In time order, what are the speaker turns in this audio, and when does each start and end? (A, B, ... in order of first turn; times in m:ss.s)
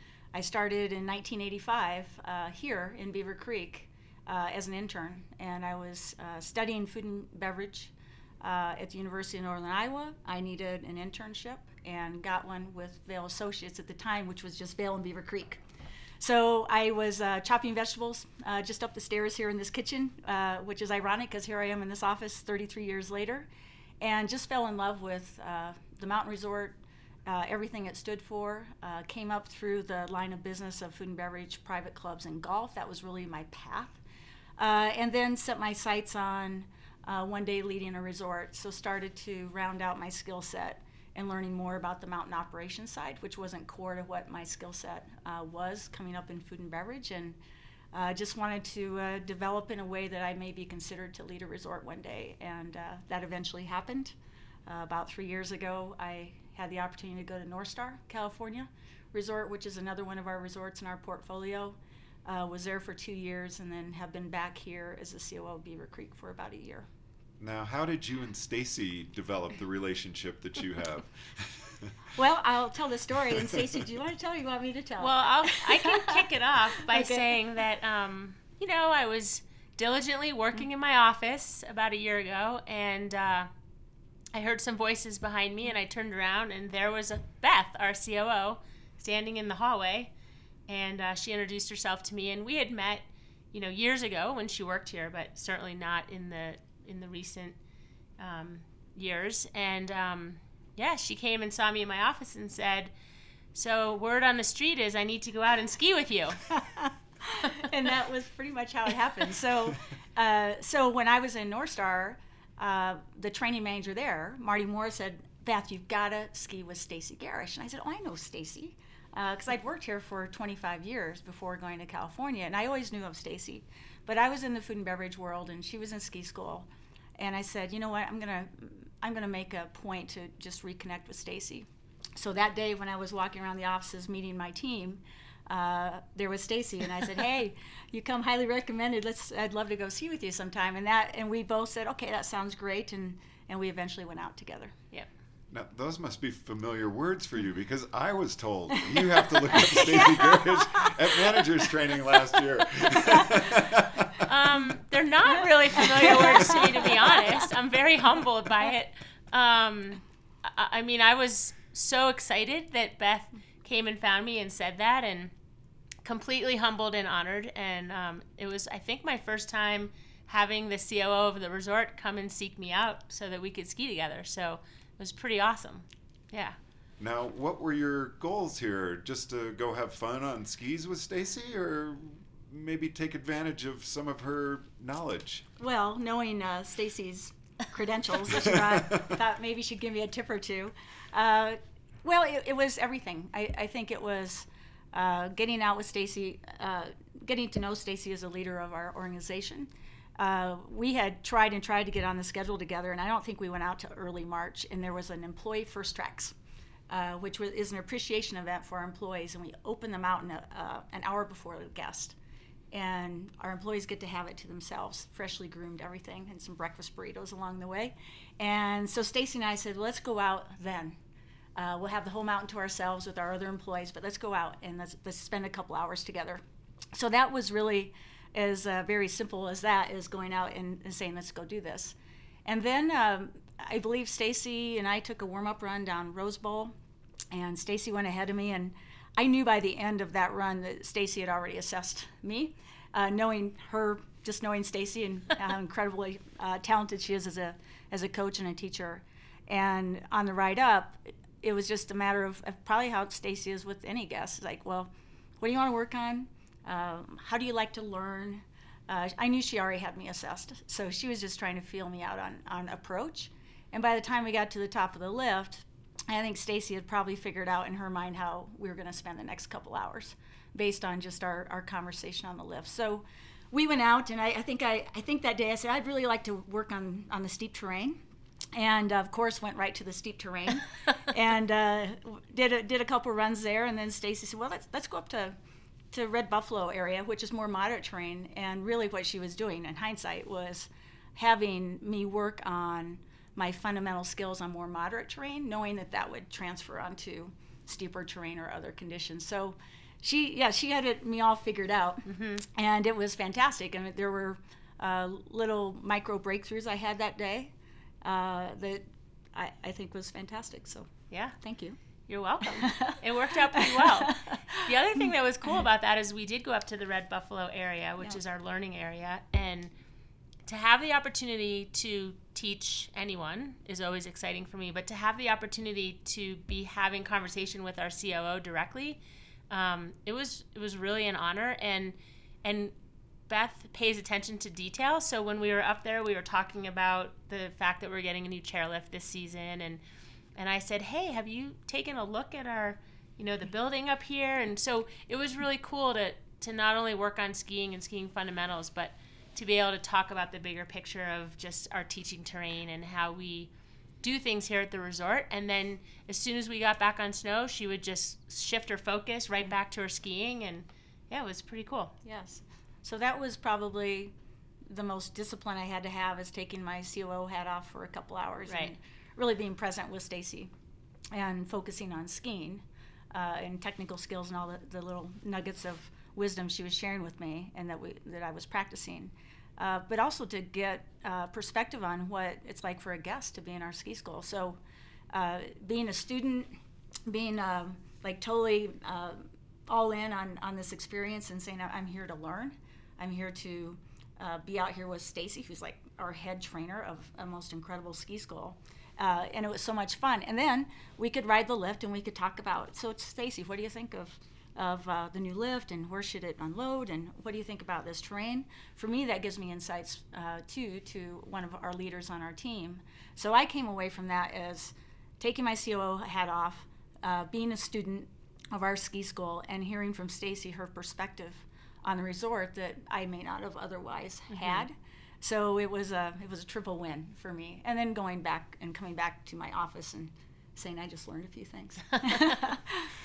0:00.3-0:15.6 A
0:16.2-0:23.5 A
0:24.0-0:34.0 A
0:34.6-0:47.4 A
0:47.9-0:54.1 A
0:54.7-1:06.9 A
1:07.4-1:11.9 B
1:12.2-1:17.4 A
1:15.0-1:23.5 C
1:24.3-1:30.1 C
1:30.7-1:37.6 C
1:38.2-1:42.9 C
1:43.5-1:46.4 C
1:46.5-2:24.8 A
2:25.5-2:34.3 B
2:28.9-2:30.9 A
2:34.2-2:45.3 C
2:35.9-2:37.2 A
2:46.0-2:56.6 C
2:57.0-3:05.4 B
3:05.6-3:26.4 A
3:08.3-3:09.1 B
3:26.9-3:32.2 A
3:32.7-3:41.0 A
3:41.6-3:46.4 A
3:46.9-3:56.8 A
3:57.3-4:38.0 A
4:38.5-4:45.4 A
4:45.9-5:08.8 A
5:02.1-5:02.4 C
5:09.3-5:11.8 A
5:11.1-5:11.4 C
5:12.1-5:19.7 C
5:12.4-5:14.7 A
5:20.4-5:29.0 C
5:29.5-5:32.7 C
5:33.3-5:39.8 C
5:40.4-5:53.5 C
5:54.0-6:01.9 C
6:02.0-6:04.2 A
6:04.7-6:10.5 A
6:08.5-6:08.7 C
6:11.1-6:24.6 A
6:25.1-6:26.5 A
6:27.1-7:12.9 A
7:04.3-7:04.6 C